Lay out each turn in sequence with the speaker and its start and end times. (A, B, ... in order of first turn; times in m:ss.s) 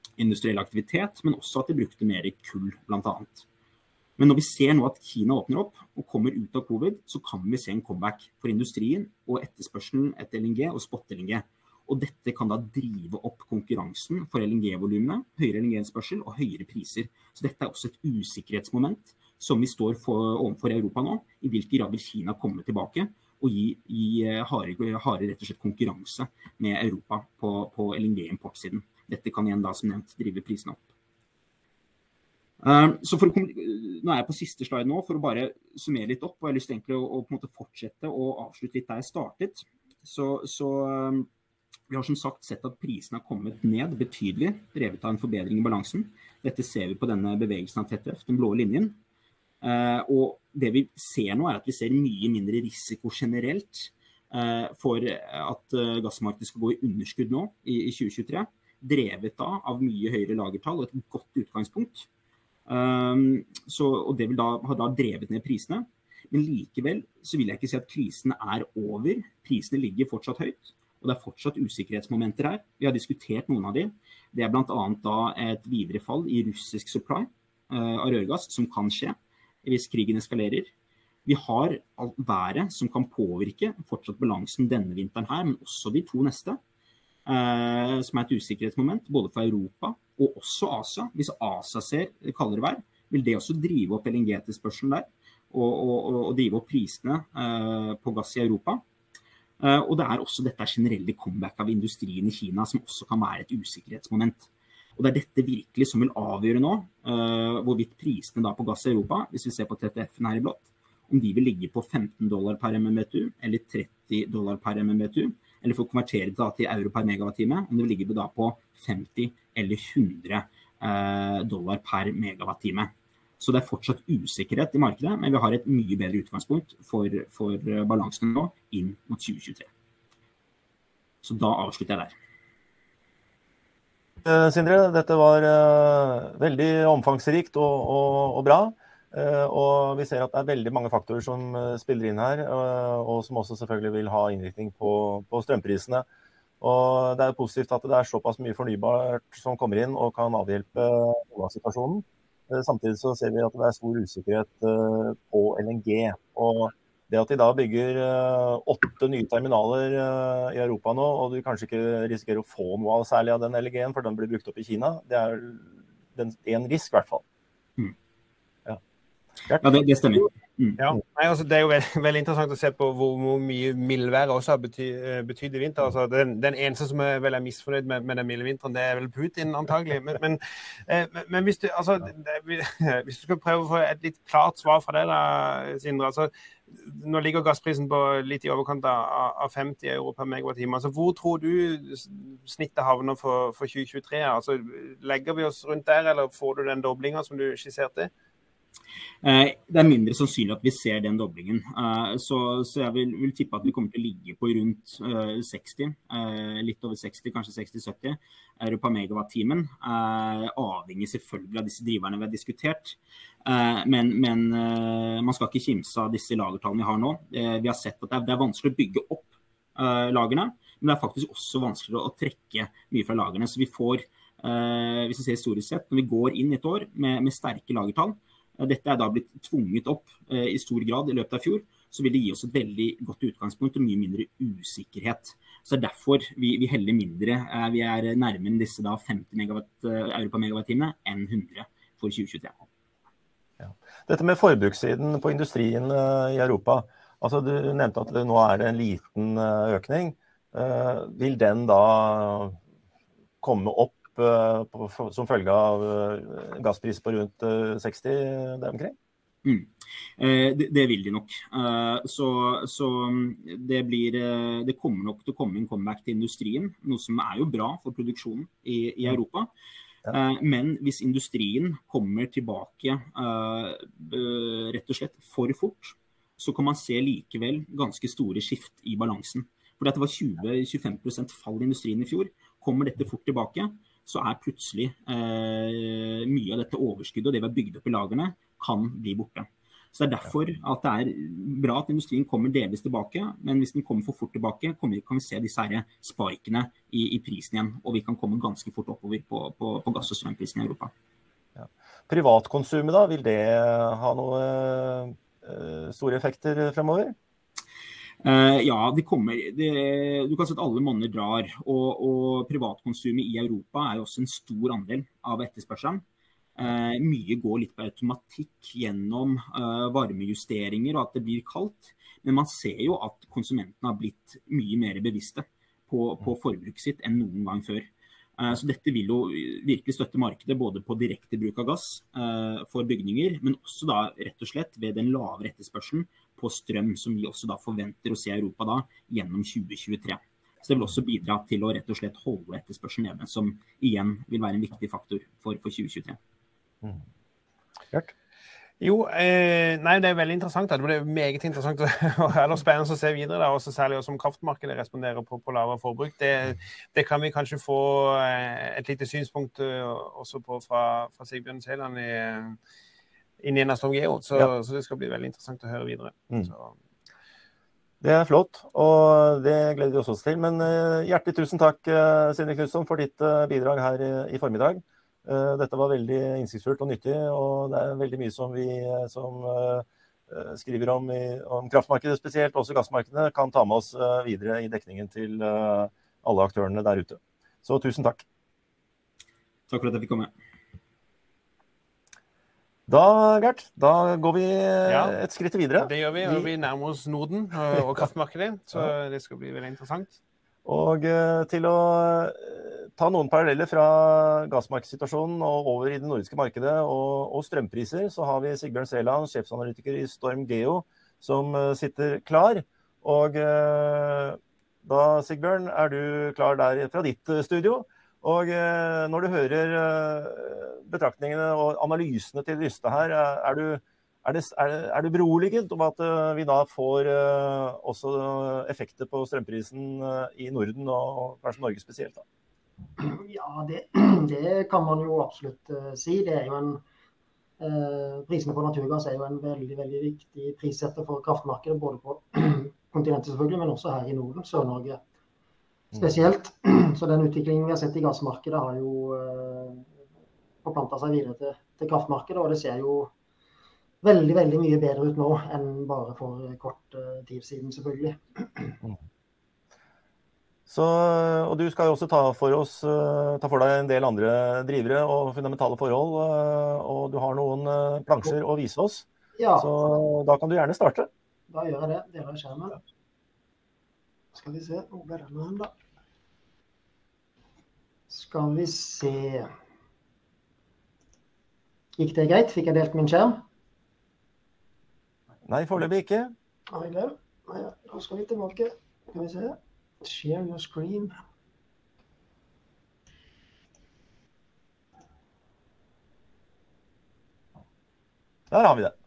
0:00.2-0:03.4 A
0:04.2-0:30.9 A
0:32.6-0:41.3 A
0:41.9-0:49.0 A
0:49.6-1:02.1 A
1:02.7-1:20.7 A
1:21.2-1:26.6 A
1:27.2-1:38.8 A
1:39.6-2:09.7 A
2:11.2-2:12.1 A
2:14.2-2:26.1 B
2:26.6-2:47.2 B
2:49.6-2:50.8 A
2:50.8-3:18.1 C
3:19.2-4:02.6 A
4:03.6-4:12.6 B
4:13.4-4:18.9 B
4:19.4-4:29.5 A
4:30.1-5:00.9 A
5:01.6-5:07.1 B
5:08.2-5:16.0 A
5:16.6-5:46.2 A
5:48.8-6:02.6 C
6:03.4-6:06.7 C
6:08.0-6:28.2 B
6:29.7-6:30.3 A
6:32.9-6:36.5 B
6:34.9-6:35.2 C
6:35.8-6:40.2 C
6:40.6-7:12.2 B
7:13.0-7:16.8 D
7:17.6-7:25.0 D
7:25.9-7:29.9 D
7:30.6-7:33.1 D
7:34.0-7:38.8 D
7:40.7-7:51.1 B
7:49.4-7:49.7 D
7:51.5-7:52.8 D
7:54.3-7:55.7 D
7:58.1-7:59.5 D
8:02.0-8:03.4 D
8:05.4-8:06.3 B
8:06.7-8:11.2 D
8:18.5-8:18.9 B